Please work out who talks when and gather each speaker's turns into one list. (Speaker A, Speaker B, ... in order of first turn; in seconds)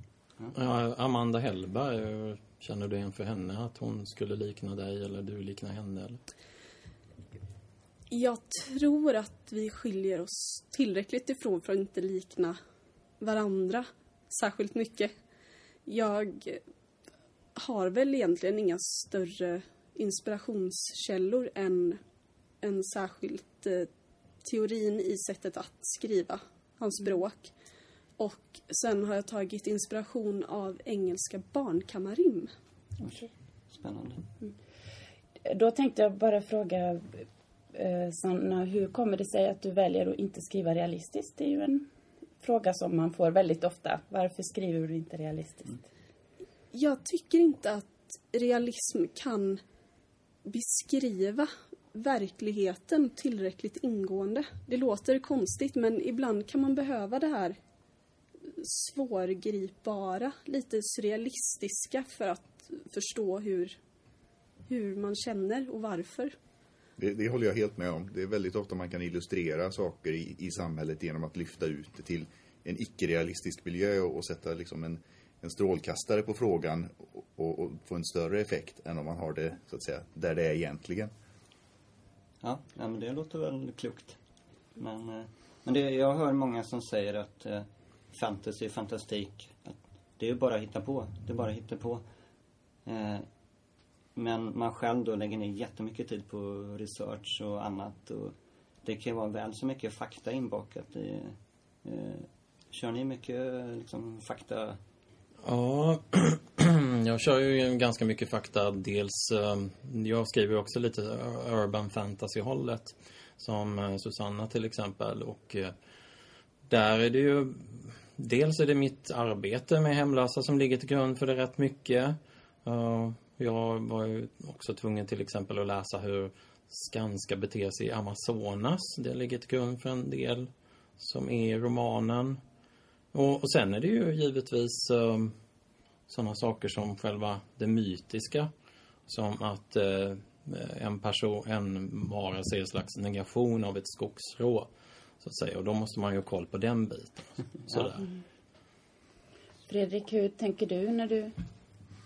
Speaker A: 0.5-6.2, 105.4-115.7, 116.7-132.4, 133.1-135.3, 136.1-138.5, 139.1-144.7, 145.2-148.1
Speaker B: 8.1-12.6, 13.2-15.1, 15.8-16.6, 17.5-22.0, 22.6-23.9, 24.4-27.5, 28.2-32.5, 46.7-49.6, 50.4-57.6, 58.4-63.7, 64.7-66.3
Speaker C: 33.0-34.2, 82.4-84.2, 84.8-92.0, 92.8-93.2, 94.1-104.8
Speaker D: 35.4-41.9, 42.4-45.9, 149.7-151.3
Speaker E: 67.0-81.1